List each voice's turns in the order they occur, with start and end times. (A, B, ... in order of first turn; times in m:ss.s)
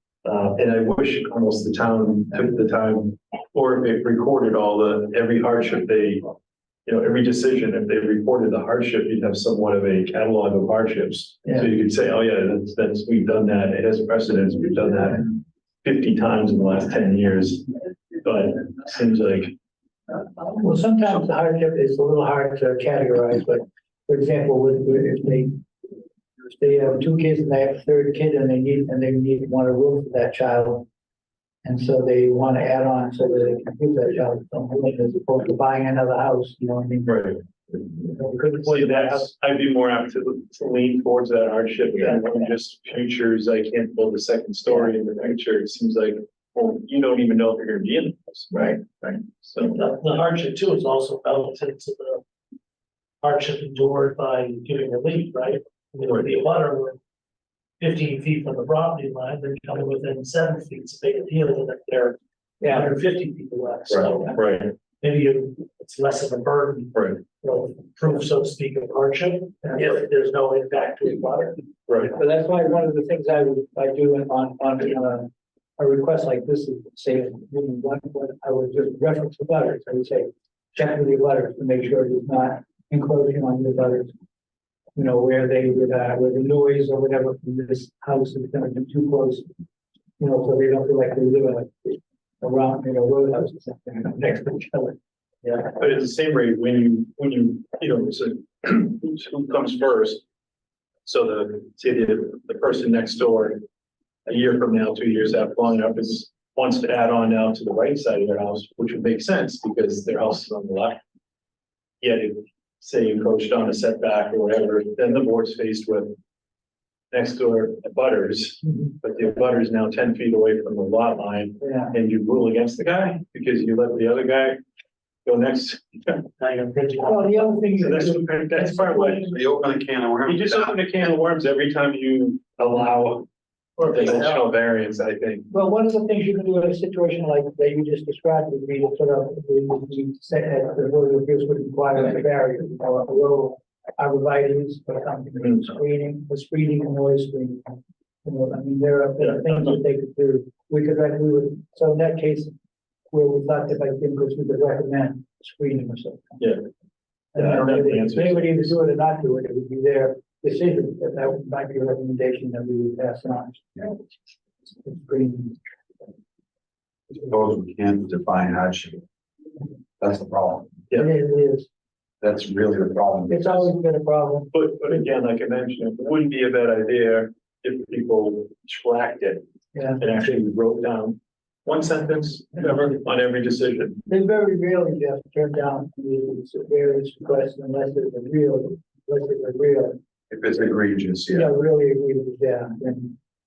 0:00.2-0:06.3 A
0:06.9-0:15.3 A
0:15.8-0:17.7 A
0:18.2-0:19.5 A
0:20.4-0:25.6 B
0:26.5-0:30.9 B
0:31.6-0:37.4 B
0:37.1-0:37.4 A
0:38.0-0:39.3 B
0:38.6-0:48.5 A
0:48.5-0:49.2 B
0:49.4-0:49.8 A
0:49.7-0:52.2 C
0:53.2-0:57.0 C
0:57.8-1:04.4 C
1:02.6-1:02.9 B
1:03.9-1:04.7 A
1:05.0-1:11.6 C
1:06.9-1:07.2 A
1:11.9-1:12.2 A
1:12.1-1:24.1 B
1:25.0-1:29.5 B
1:30.2-1:35.0 B
1:35.6-1:40.2 A
1:41.0-1:43.6 A
1:44.3-1:51.0 A
1:52.0-1:56.1 A
1:57.1-2:04.6 A
2:01.6-2:02.0 B
2:05.3-2:06.2 A
2:06.4-2:07.4 C
2:07.0-2:09.4 B
2:07.8-2:09.3 A
2:09.3-2:10.7 D
2:10.2-2:13.3 A
2:13.8-2:14.4 C
2:13.9-2:15.5 A
2:15.5-2:27.7 B
2:28.2-2:32.6 B
2:33.1-2:36.4 B
2:37.3-2:44.0 B
2:37.4-2:38.8 A
2:44.8-2:45.6 B
2:47.1-2:49.0 D
2:50.0-2:50.7 D
2:50.9-2:51.7 B
2:52.2-2:53.7 D
2:53.3-2:54.5 B
2:54.5-2:59.4 A
2:59.7-3:00.0 B
3:00.0-3:04.0 A
3:04.1-3:10.0 B
3:10.3-3:11.5 D
3:11.3-3:13.2 B